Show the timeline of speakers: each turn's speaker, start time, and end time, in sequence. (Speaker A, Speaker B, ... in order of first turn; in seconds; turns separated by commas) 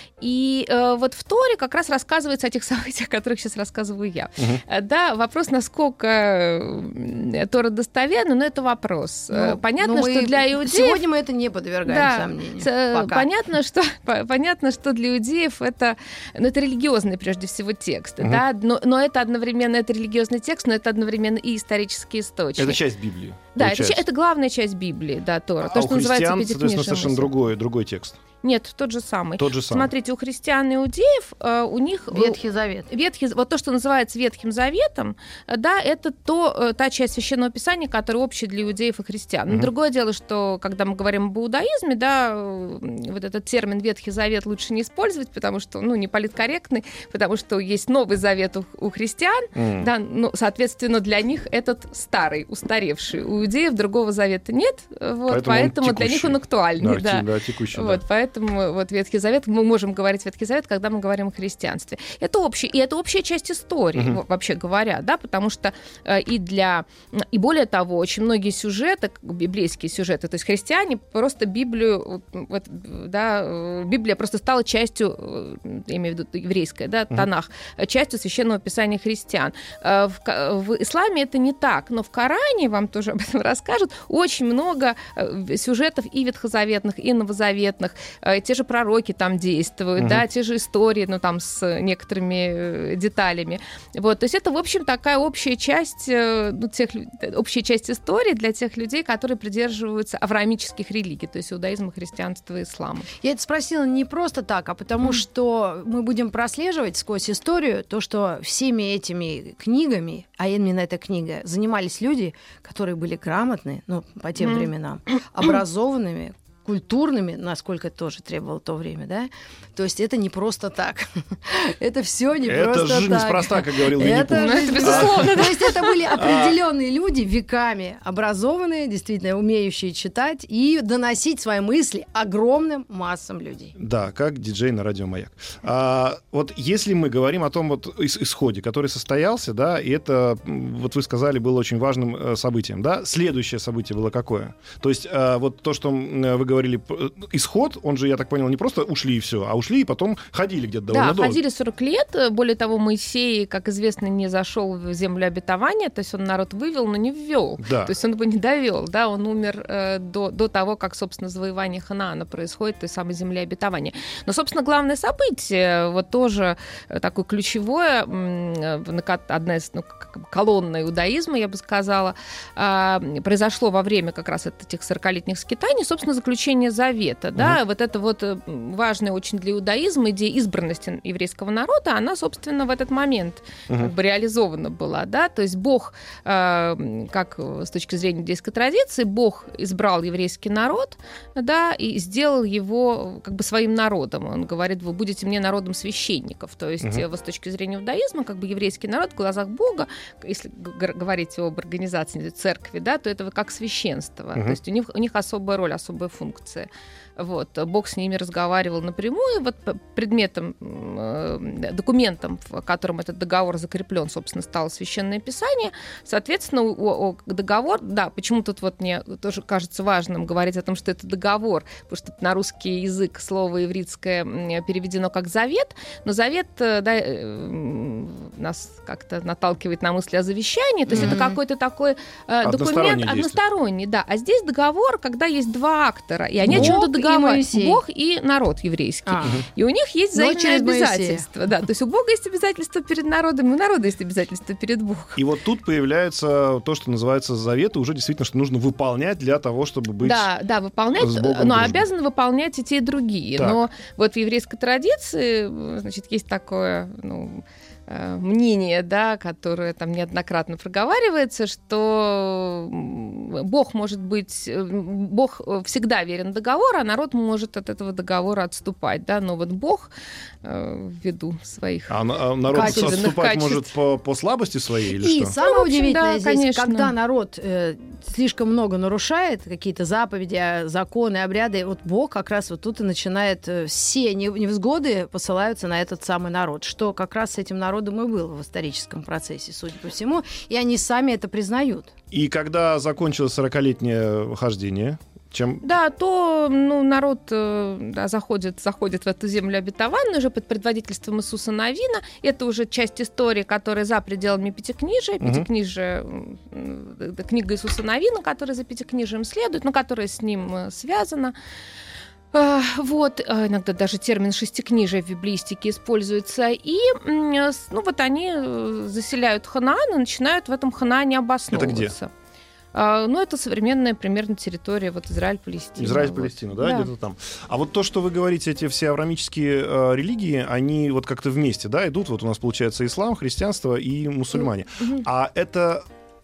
Speaker A: 0.2-11.0, Speaker B: 9.3-13.2, Speaker A: 11.8-22.8, Speaker C: 22.6-24.0, Speaker A: 23.5-27.3, Speaker C: 25.6-28.2, Speaker A: 28.4-103.1, Speaker C: 29.4-29.9, Speaker B: 32.1-32.9, Speaker C: 49.5-49.9, Speaker C: 55.3-58.0, Speaker B: 103.2-133.7, Speaker A: 114.4-114.7, Speaker C: 122.5-125.5, Speaker A: 124.3-126.2, Speaker C: 126.1-126.6, Speaker C: 133.8-151.4, Speaker A: 150.9-245.2, Speaker C: 157.6-157.9, Speaker B: 230.9-231.4, Speaker C: 232.4-233.4, Speaker B: 236.4-237.8, Speaker C: 236.5-236.8, Speaker B: 239.1-239.4, Speaker B: 240.1-241.2, Speaker C: 245.2-250.2, Speaker A: 250.0-269.9, Speaker C: 250.9-251.8, Speaker C: 253.4-253.6, Speaker A: 270.4-271.9, Speaker C: 271.9-275.3, Speaker A: 272.5-273.7, Speaker B: 272.5-273.1, Speaker B: 275.0-291.9, Speaker A: 275.3-276.9, Speaker C: 292.1-295.6, Speaker A: 295.6-311.3, Speaker C: 305.2-305.4, Speaker A: 312.3-322.1, Speaker C: 321.5-321.9, Speaker A: 322.7-326.8, Speaker C: 325.8-335.8